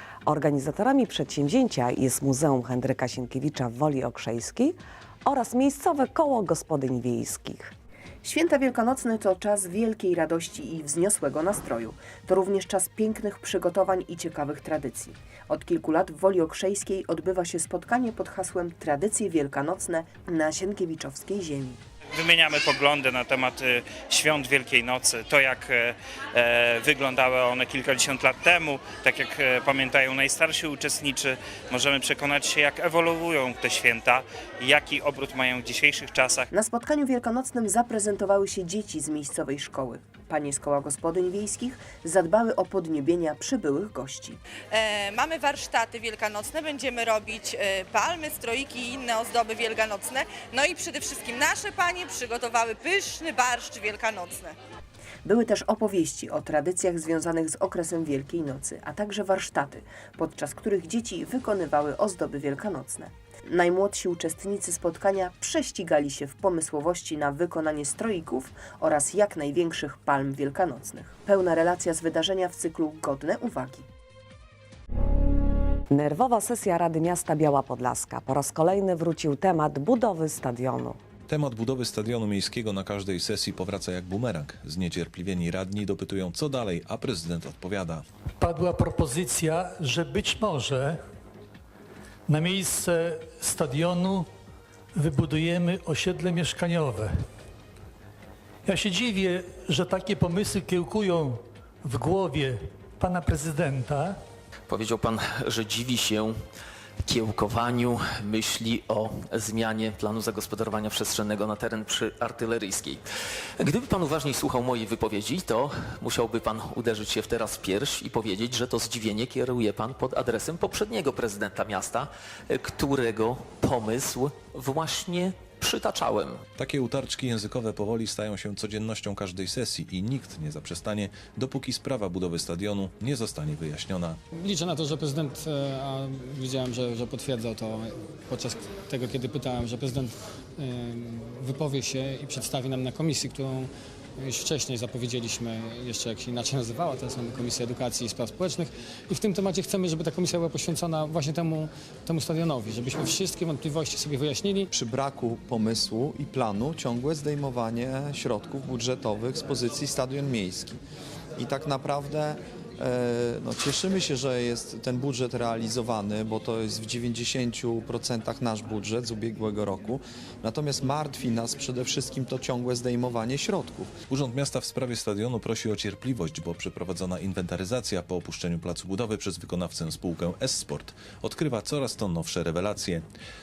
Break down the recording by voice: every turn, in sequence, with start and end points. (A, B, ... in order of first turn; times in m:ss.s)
0:00.2-0:07.7 A
0:08.2-0:21.8 B
0:22.1-0:36.4 C
0:36.5-0:44.4 B
0:44.7-0:54.6 D
0:55.2-1:13.8 B
1:15.9-1:21.0 A
1:21.3-1:28.0 E
1:28.4-1:31.0 F
1:32.3-1:34.3 F
1:35.0-1:37.1 F
1:38.6-1:44.1 F
1:44.7-1:46.4 G
1:47.0-1:53.0 G
1:53.6-2:06.4 G
2:06.6-2:14.2 E
2:14.3-2:34.7 H
2:34.7-2:40.8 I
2:41.4-2:53.9 I
2:54.1-3:03.0 E